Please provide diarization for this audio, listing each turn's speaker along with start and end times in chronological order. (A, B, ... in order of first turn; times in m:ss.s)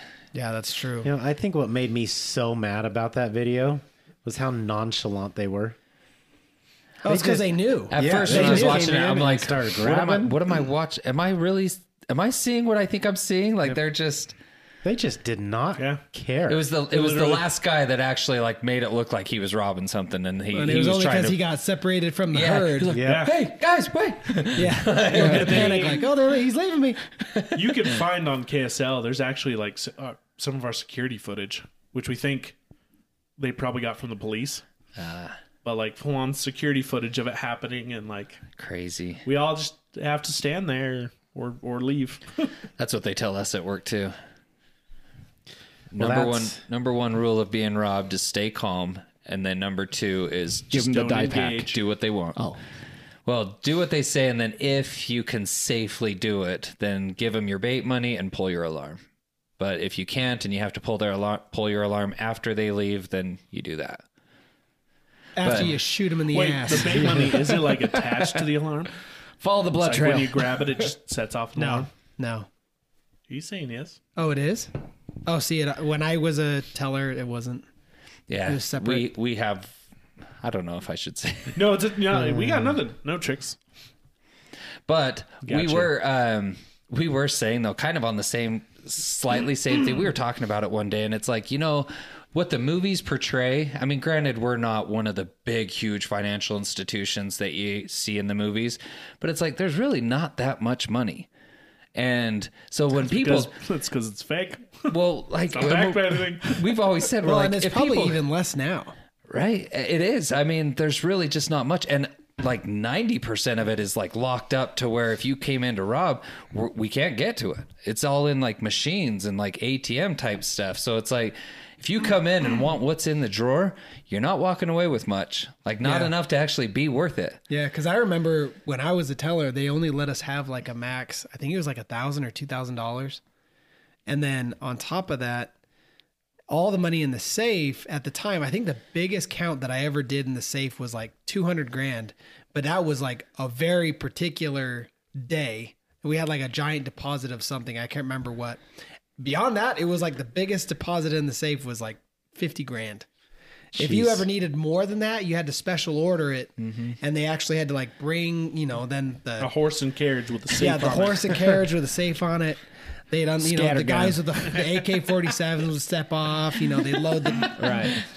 0:00.3-0:01.1 A
0:01.0-0:05.8 B
0:07.0-0:09.2 A
0:07.0-0:10.5 B
0:07.9-0:14.4 C
0:14.8-0:16.6 B
0:15.8-0:16.0 D
0:16.5-0:21.4 C
0:16.9-0:17.4 D
0:20.5-0:23.0 A
0:22.3-0:25.9 C
0:22.9-0:23.3 B
0:23.0-0:23.4 D
0:24.6-0:27.0 A
0:25.1-0:26.0 D
0:25.1-0:25.4 E
0:27.3-0:27.6 C
0:27.5-0:32.6 D
0:33.4-0:34.6 D
0:35.0-0:35.4 C
0:35.6-0:38.5 D
0:38.5-0:39.2 C
0:39.2-0:42.5 D
0:42.8-0:44.1 C
0:45.9-0:52.4 C
0:46.0-0:46.6 B
0:50.7-0:51.7 E
0:50.8-0:51.8 D
0:52.4-0:52.6 E
0:53.2-0:59.0 C
0:59.6-1:04.0 C
1:05.4-1:07.6 A
1:05.4-1:05.8 C
1:06.3-1:08.9 D
1:09.4-1:10.7 E
1:09.8-1:11.9 D
1:11.6-1:12.5 A
1:13.3-1:14.0 D
1:14.2-1:14.7 A
1:15.3-1:17.7 A
1:18.3-1:19.8 C
1:18.5-1:19.1 A
1:20.4-1:21.7 C
1:21.6-1:23.6 D
1:24.9-1:41.3 C
1:25.4-1:25.9 D
1:42.0-1:43.5 C
1:43.0-1:45.0 D
1:44.9-1:48.2 C
1:45.5-1:46.7 D
1:47.2-1:48.9 A
1:49.3-2:07.4 C
2:05.8-2:06.1 A
2:07.5-2:13.2 A
2:14.1-2:15.5 A
2:16.5-2:28.6 A
2:29.2-2:33.1 A
2:33.8-2:39.5 A
2:33.8-2:34.2 E
2:36.6-2:36.9 C
2:39.4-2:41.6 D
2:40.5-2:47.8 A
2:43.4-2:44.2 E
2:47.6-2:48.0 E